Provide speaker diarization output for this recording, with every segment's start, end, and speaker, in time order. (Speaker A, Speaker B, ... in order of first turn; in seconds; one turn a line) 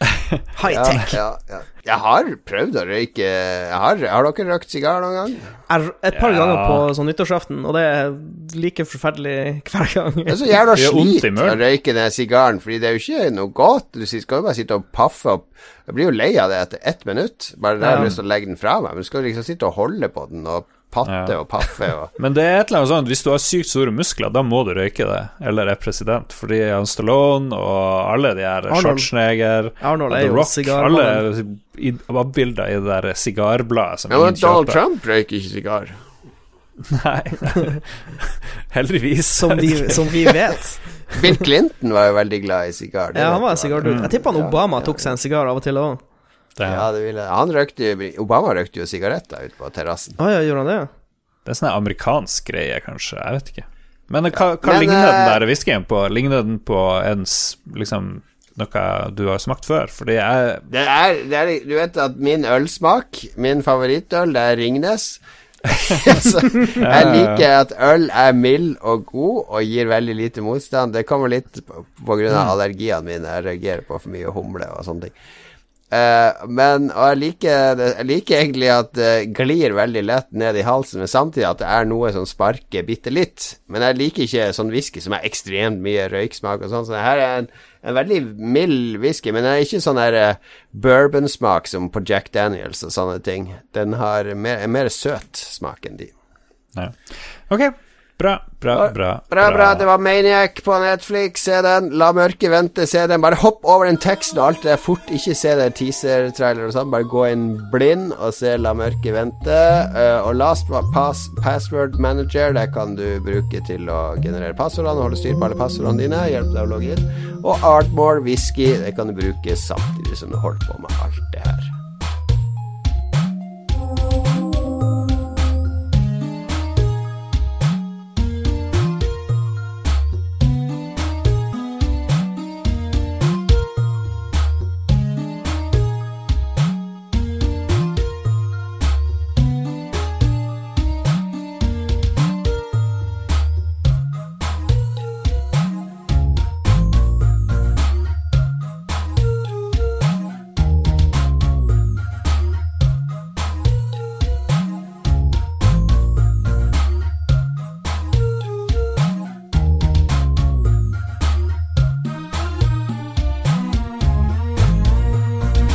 Speaker A: 0.5-1.2
Speaker B: 0.7-5.5
Speaker A: 5.7-10.4
Speaker C: 6.2-6.9
Speaker B: 10.3-22.1
Speaker C: 10.8-11.6
Speaker A: 17.8-18.1
Speaker C: 21.1-21.4
Speaker C: 22.2-34.8
Speaker A: 28.7-29.1
Speaker A: 29.8-31.2
Speaker B: 34.1-36.0
Speaker C: 36.9-40.5
Speaker A: 39.4-40.8
Speaker B: 41.2-45.1
Speaker A: 43.1-46.0
Speaker C: 43.9-44.1
Speaker C: 46.6-46.9
Speaker B: 46.7-50.2
Speaker A: 50.2-50.9
Speaker C: 51.5-60.6
Speaker B: 54.4-55.4
Speaker B: 60.7-75.1
Speaker C: 66.7-67.5
Speaker B: 75.9-96.1
Speaker C: 97.5-99.8
Speaker B: 98.7-121.7